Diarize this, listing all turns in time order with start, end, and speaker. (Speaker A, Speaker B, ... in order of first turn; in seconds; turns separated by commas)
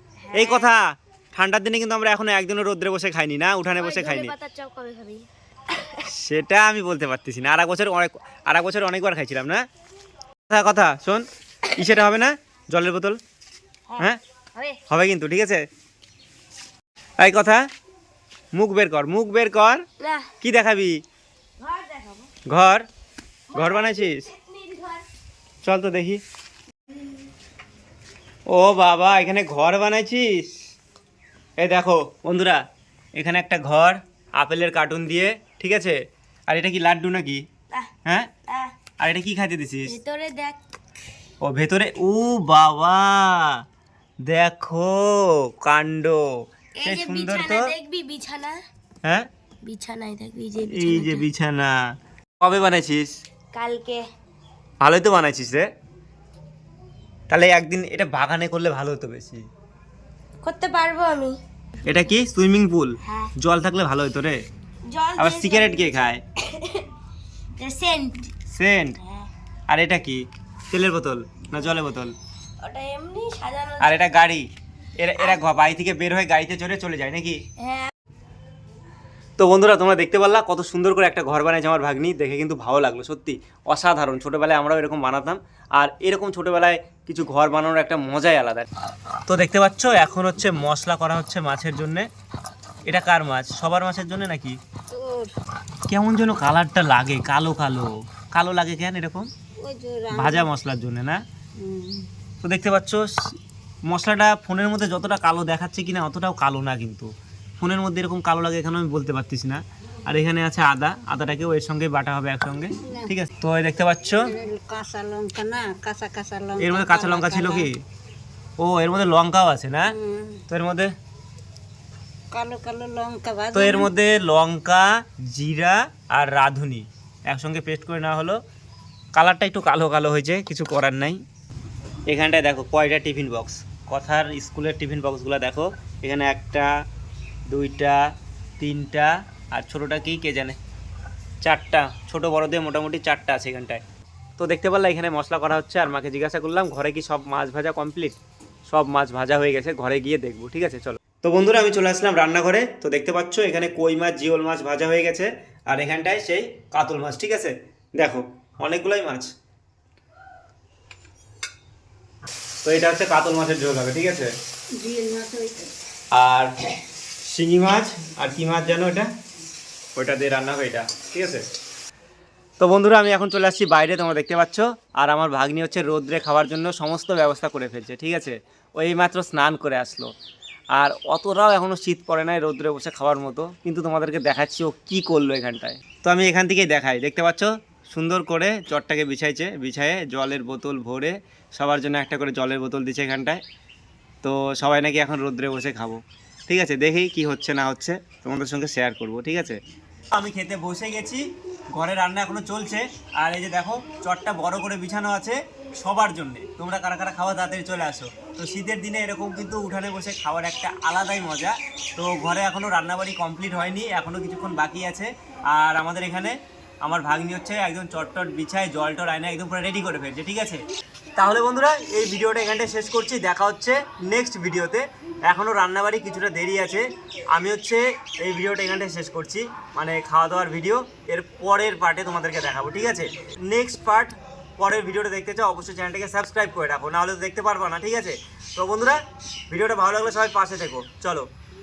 Speaker A: 0.2-0.7, Speaker B: 0.3-4.3, Speaker A: 3.8-6.1, Speaker B: 6.0-9.6, Speaker B: 10.5-13.2, Speaker A: 13.9-14.8, Speaker B: 14.9-15.6, Speaker B: 17.2-17.6, Speaker B: 18.6-19.8, Speaker A: 20.0-20.3, Speaker B: 20.4-21.0, Speaker A: 21.6-22.3, Speaker B: 22.5-22.9, Speaker A: 23.5-25.0, Speaker B: 23.5-24.3, Speaker B: 25.6-26.2, Speaker B: 28.5-30.5, Speaker B: 31.6-32.6, Speaker B: 33.2-36.0, Speaker B: 36.5-37.5, Speaker B: 38.1-38.3, Speaker A: 38.5-38.7, Speaker B: 39.0-40.0, Speaker A: 39.9-40.6, Speaker B: 41.4-43.6, Speaker B: 44.3-46.2, Speaker A: 46.8-48.6, Speaker B: 46.8-47.7, Speaker A: 49.6-51.3, Speaker B: 50.6-53.2, Speaker A: 53.5-54.0, Speaker B: 54.8-55.7, Speaker B: 57.3-59.4, Speaker A: 60.4-61.4, Speaker B: 61.9-64.4, Speaker A: 63.1-63.3, Speaker A: 64.9-66.9, Speaker B: 65.2-66.2, Speaker A: 67.6-68.3, Speaker B: 68.5-69.0, Speaker A: 69.0-69.3, Speaker B: 69.7-72.1, Speaker A: 72.6-74.1, Speaker B: 73.8-74.5, Speaker B: 75.0-77.4, Speaker A: 77.6-77.9, Speaker B: 79.4-88.7, Speaker B: 89.3-92.1, Speaker B: 92.9-94.6, Speaker C: 94.9-95.3, Speaker B: 95.9-99.3, Speaker C: 99.6-100.5, Speaker B: 100.1-101.2, Speaker C: 101.6-102.1, Speaker B: 102.4-103.1, Speaker B: 103.9-114.3, Speaker C: 112.8-113.1, Speaker C: 114.1-117.7, Speaker B: 116.6-117.8, Speaker B: 118.6-119.9, Speaker C: 119.9-120.4, Speaker B: 120.5-120.9, Speaker C: 122.3-123.9, Speaker B: 123.5-128.4, Speaker B: 129.2-131.2, Speaker B: 132.1-136.7, Speaker B: 137.5-138.1, Speaker B: 138.6-140.6, Speaker B: 141.4-143.8, Speaker B: 144.4-148.2, Speaker B: 148.7-159.3, Speaker B: 162.6-164.3, Speaker C: 164.8-165.7, Speaker B: 166.1-166.6, Speaker B: 167.2-169.1, Speaker B: 170.0-171.4, Speaker B: 172.6-180.1, Speaker B: 180.8-193.4, Speaker B: 194.2-199.6, Speaker B: 200.1-220.6, Speaker B: 221.2-241.3